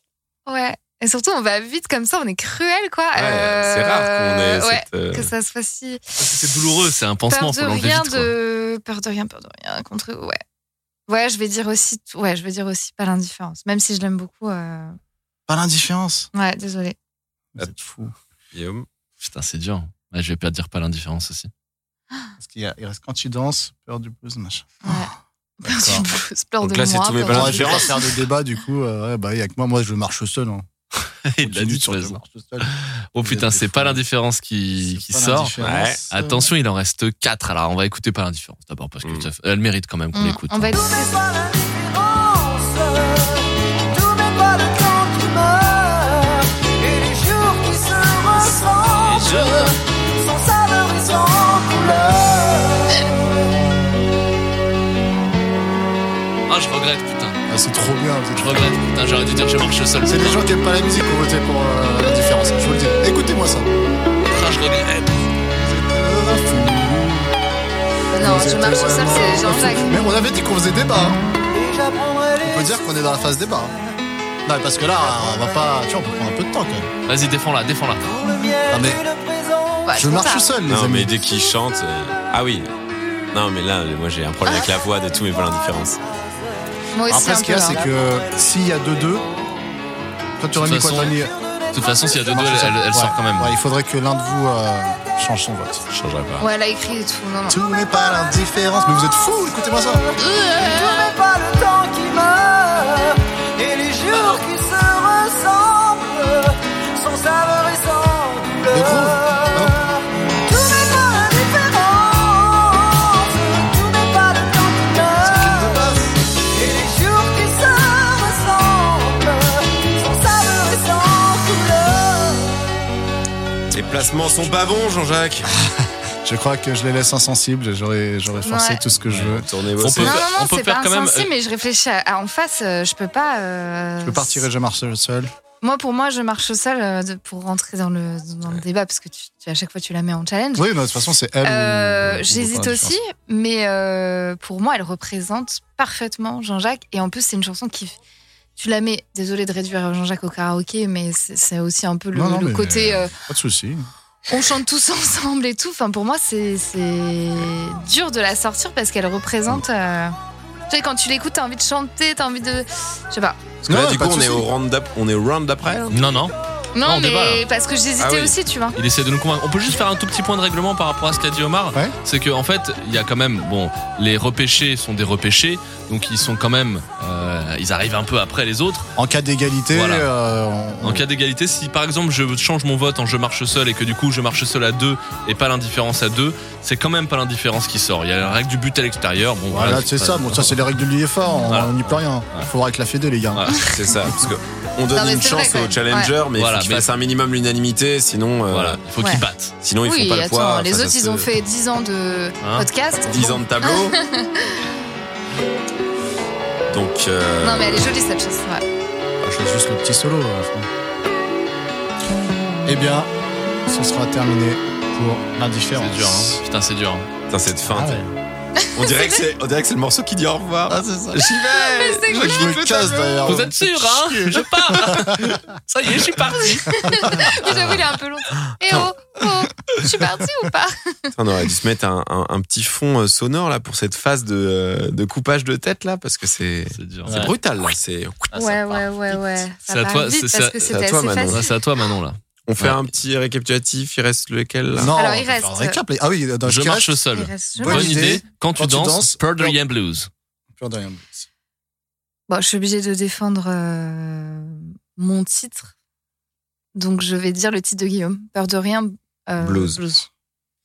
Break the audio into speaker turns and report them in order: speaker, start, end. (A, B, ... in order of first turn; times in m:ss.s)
0:00.4-0:06.0 A
0:03.1-0:05.3 B
0:06.2-0:08.3 C
0:07.3-0:10.4 A
0:11.1-0:15.0 A
0:15.5-0:16.3 D
0:16.3-0:17.0 A
0:17.5-0:18.1 D
0:18.5-0:18.9 B
0:19.2-0:21.5 C
0:22.4-0:25.1 D
0:24.8-0:28.2 A
0:25.6-0:26.0 D
0:26.6-0:28.0 B
0:27.3-0:30.6 D
0:31.2-0:35.6 C
0:31.4-0:34.0 D
0:34.7-0:36.5 D
0:35.6-0:36.0 B
0:36.1-0:40.7 C
0:40.1-0:41.2 A
0:40.7-0:53.1 E
0:49.0-0:49.8 C
0:56.5-0:57.4 C
0:57.5-0:58.7 D
0:58.4-1:00.4 C
1:00.0-1:03.7 D
1:04.2-1:05.3 C
1:05.6-1:07.3 D
1:08.1-1:10.0 A
1:08.2-1:11.2 D
1:11.5-1:13.0 E
1:12.4-1:13.7 D
1:14.4-1:16.9 D
1:17.1-1:18.2 C
1:18.1-1:19.9 E
1:18.7-1:19.0 D
1:19.8-1:20.5 A
1:20.0-1:21.1 D
1:20.7-1:22.7 B
1:23.3-1:26.0 B
1:26.9-1:27.8 A
1:27.1-1:29.2 D
1:30.4-1:31.3 D
1:30.6-1:31.2 C
1:31.7-1:33.5 C
1:32.2-1:35.8 D
1:35.9-1:36.4 B
1:36.4-1:37.6 A
1:37.5-1:40.0 D
1:40.2-1:55.8 E
1:40.6-1:41.0 A
1:48.7-1:49.9 D
1:55.2-1:56.2 D
1:56.5-2:02.6 E
2:03.7-2:05.5 B
2:05.4-2:09.5 D
2:08.4-2:08.8 A
2:09.1-2:11.3 C
2:09.3-2:10.2 B
2:10.0-2:14.4 A
2:14.0-2:15.3 D
2:15.6-2:20.7 A
2:20.5-2:23.0 D
2:21.4-2:28.0 A
2:28.6-2:33.1 A
2:32.1-2:33.9 D
2:34.3-2:40.2 A
2:40.7-2:43.4 A
2:43.6-2:44.5 D
2:43.7-2:46.0 B
2:45.9-2:46.3 C
2:46.7-2:48.8 A
2:46.8-2:47.4 C
2:48.0-2:48.3 B
2:48.7-2:58.9 C
2:59.0-3:01.0 D
2:59.7-3:00.1 C
3:00.8-3:10.6 C
3:09.5-3:13.5 D
3:11.5-3:12.5 C
3:13.3-3:13.6 C
3:13.6-3:18.8 B
3:14.9-3:16.1 A
3:16.4-3:16.9 C
3:18.5-3:19.5 C
3:19.0-3:19.2 A
3:19.6-3:21.3 B
3:19.8-3:24.6 A
3:22.4-3:22.7 C
3:23.1-3:24.0 B
3:26.7-3:27.9 B
3:27.4-3:28.6 A
3:29.2-3:30.7 D
3:32.6-3:33.1 D
3:33.6-3:36.4 D
3:35.8-3:37.1 C
3:37.3-3:38.0 B
3:37.6-3:38.1 D
3:38.6-3:39.2 A
3:38.7-3:42.6 B
3:40.7-3:41.4 D
3:41.5-3:43.4 A
3:42.0-3:45.4 D
3:43.2-3:47.4 C
3:46.7-3:51.1 A
3:51.2-3:58.8 B
3:56.7-3:57.3 C
3:57.0-3:57.3 D
3:58.3-4:01.5 A
3:59.7-4:00.7 C
4:00.7-4:01.4 B
4:01.2-4:02.8 C
4:02.4-4:04.9 B
4:04.7-4:09.6 D
4:04.9-4:05.8 A
4:06.4-4:10.1 C
4:07.1-4:08.1 A
4:10.6-4:11.2 D
4:12.3-4:15.7 A
4:16.7-4:20.1 A
4:19.4-4:19.8 B